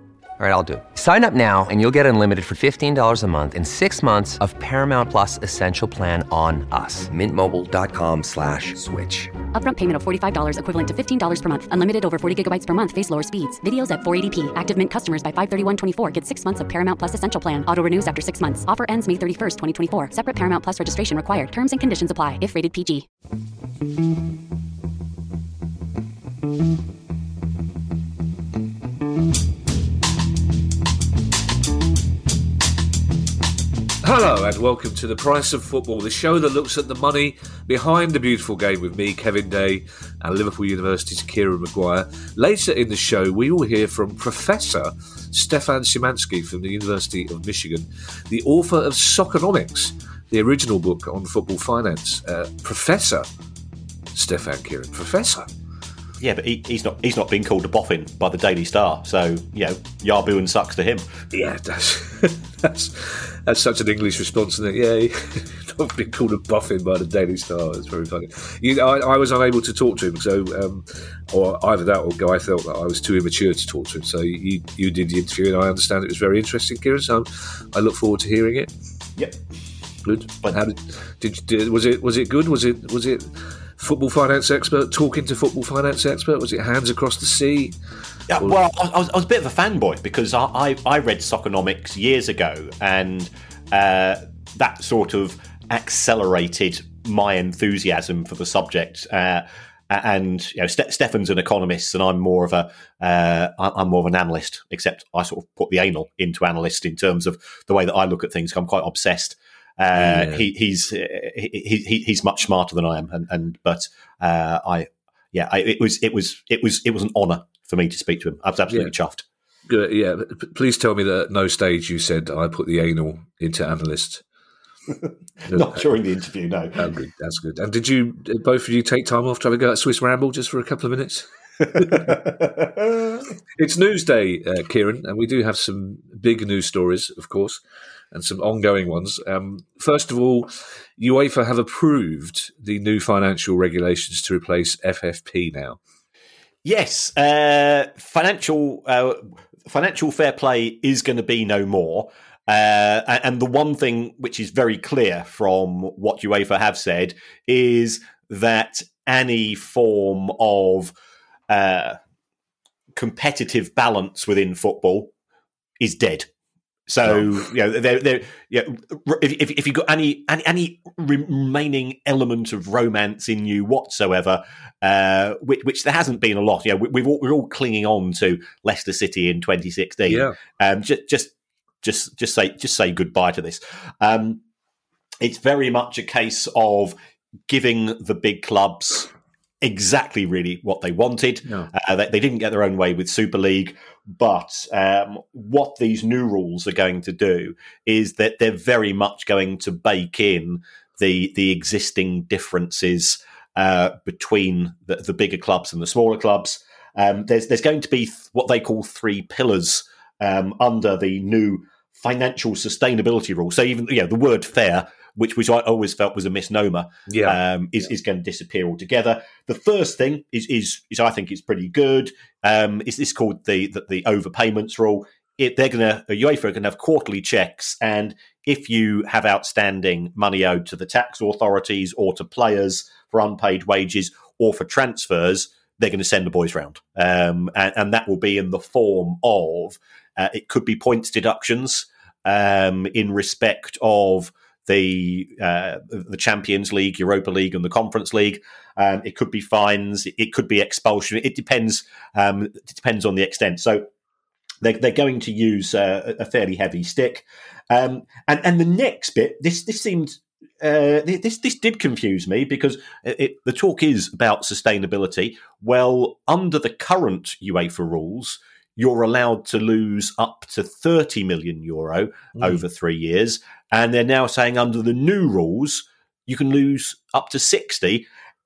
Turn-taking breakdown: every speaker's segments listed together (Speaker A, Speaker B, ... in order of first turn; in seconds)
Speaker A: 0.4-9.3
Speaker B: 9.5-23.1
Speaker C: 34.0-53.3, 54.1-55.5, 61.3-78.7, 80.0-87.8, 109.9-110.5, 119.7-124.2, 125.5-125.8, 126.8-132.2, 133.6-137.6, 138.1-145.8, 180.1-180.4, 217.1-217.4
Speaker D: 56.2-61.1, 88.3-119.2, 125.5-126.9, 131.8-133.2, 146.6-160.9, 161.5-162.0, 162.9-165.1, 165.8-166.3, 166.9-184.4, 185.2-186.9, 187.5-189.1, 189.6-253.9, 254.6-278.1